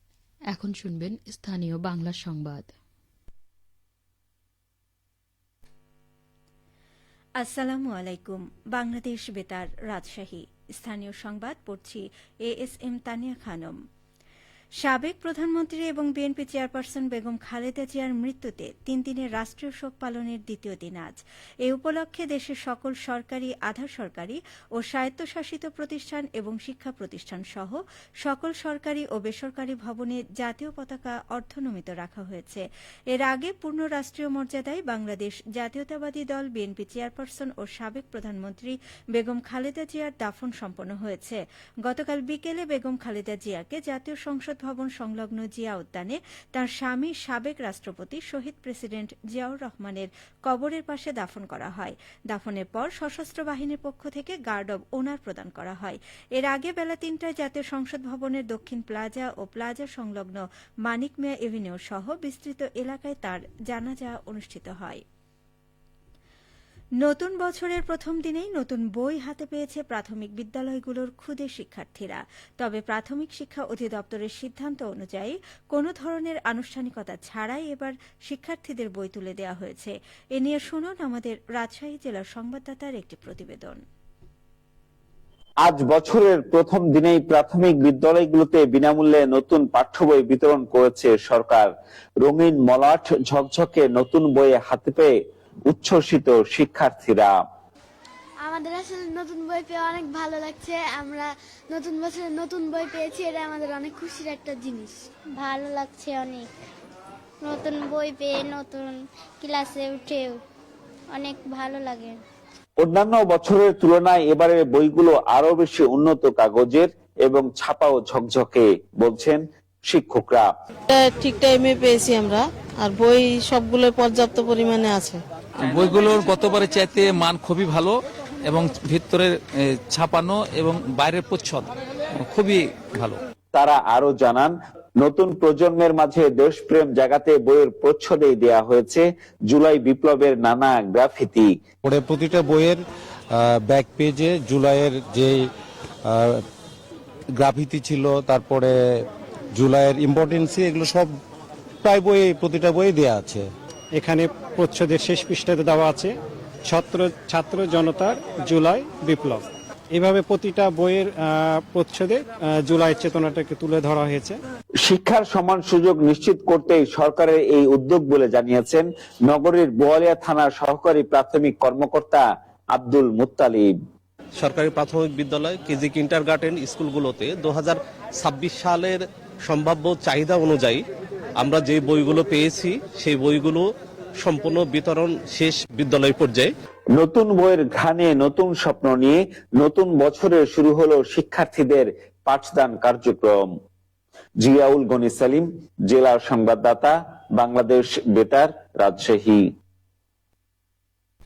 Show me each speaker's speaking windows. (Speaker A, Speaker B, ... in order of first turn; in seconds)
Speaker A: 0.5-2.7
Speaker B: 7.4-13.8, 14.8-65.0, 67.0-83.8
Speaker C: 85.6-91.7, 92.2-95.1, 95.7-97.4, 112.8-120.5, 133.5-141.6, 164.8-173.7, 186.9-193.5, 194.4-199.5
Speaker D: 98.4-105.0
Speaker E: 105.3-106.5, 107.4-110.4, 111.1-112.2
Speaker F: 120.9-125.2
Speaker G: 125.6-127.9, 128.5-131.7, 132.2-133.2
Speaker H: 141.8-142.8, 143.3-145.4, 146.1-146.4, 147.4-148.7, 149.5-151.1, 151.8-153.4
Speaker I: 153.9-156.1, 156.6-164.4
Speaker J: 174.4-180.8, 181.4-183.6, 184.2-186.5